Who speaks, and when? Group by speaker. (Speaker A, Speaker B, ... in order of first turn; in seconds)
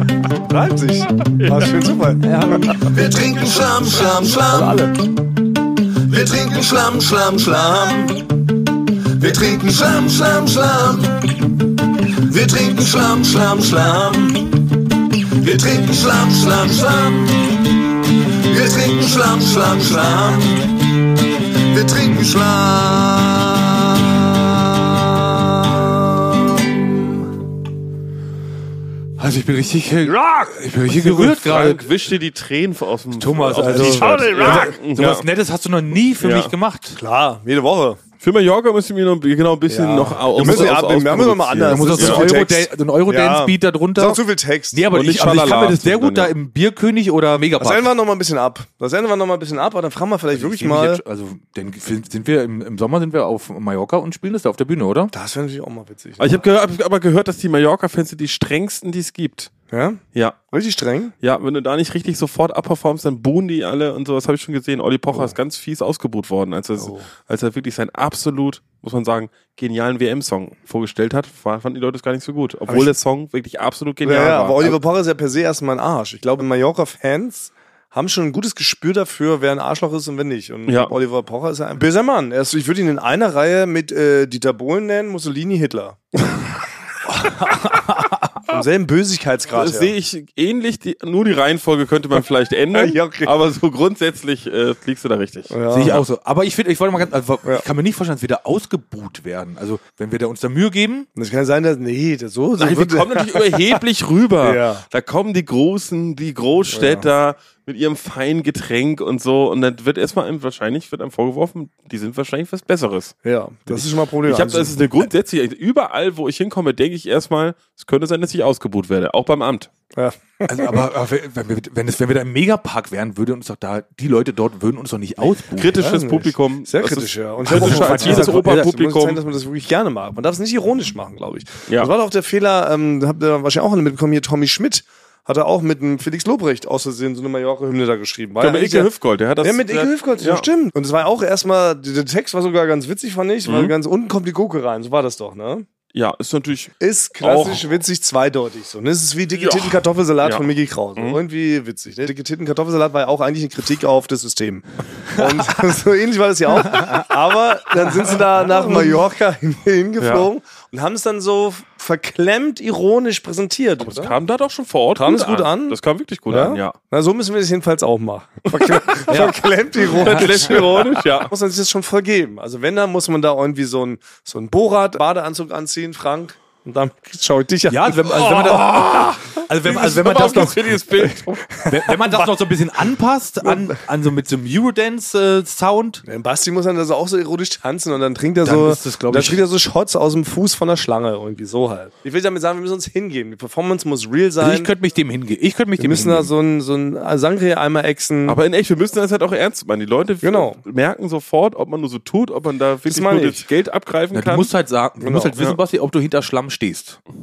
Speaker A: 0.4-2.6, 4.5-4.9, 30.0-30.7, 33.6-34.8, 37.0-38.0, 39.7-44.8, 47.6-51.0, 55.1-56.4, 59.7-61.1, 66.8-67.1, 72.7-72.9, 74.0-86.0, 88.5-89.9, 92.7-93.3, 95.5-96.0, 101.2-103.8, 104.4-104.8, 106.7-107.1, 113.2-115.0, 120.0-120.8, 125.7-145.6, 146.8-164.2, 164.9-178.7, 181.6-182.3, 183.4-183.7, 186.0-194.7, 195.8-198.4, 200.2-200.6, 202.8-203.4, 205.0-205.3
Speaker B: 1.4-1.7, 31.0-35.2, 36.2-36.5, 38.2-42.2, 44.9-46.3, 56.2-59.5, 61.2-74.8, 80.7-80.9, 89.5-96.0, 102.6-113.1, 113.7-119.7, 125.5-129.2, 138.4-140.5, 143.4-143.7, 145.9-147.6, 149.3-151.2, 160.0-160.3, 163.8-166.8, 168.5-171.3, 178.1-181.5, 198.2-204.5
Speaker C: 2.6-4.9, 6.0-8.4, 9.2-11.5, 12.1-17.7, 18.3-27.0
Speaker D: 29.2-31.9, 33.1-37.0, 40.4-40.7, 41.7-47.9, 50.3-55.1, 87.1-88.3, 95.7-101.1, 120.5-125.7, 127.5-128.7, 177.7-180.8, 181.7-186.0, 188.4-189.4, 194.4-196.3, 204.1-207.0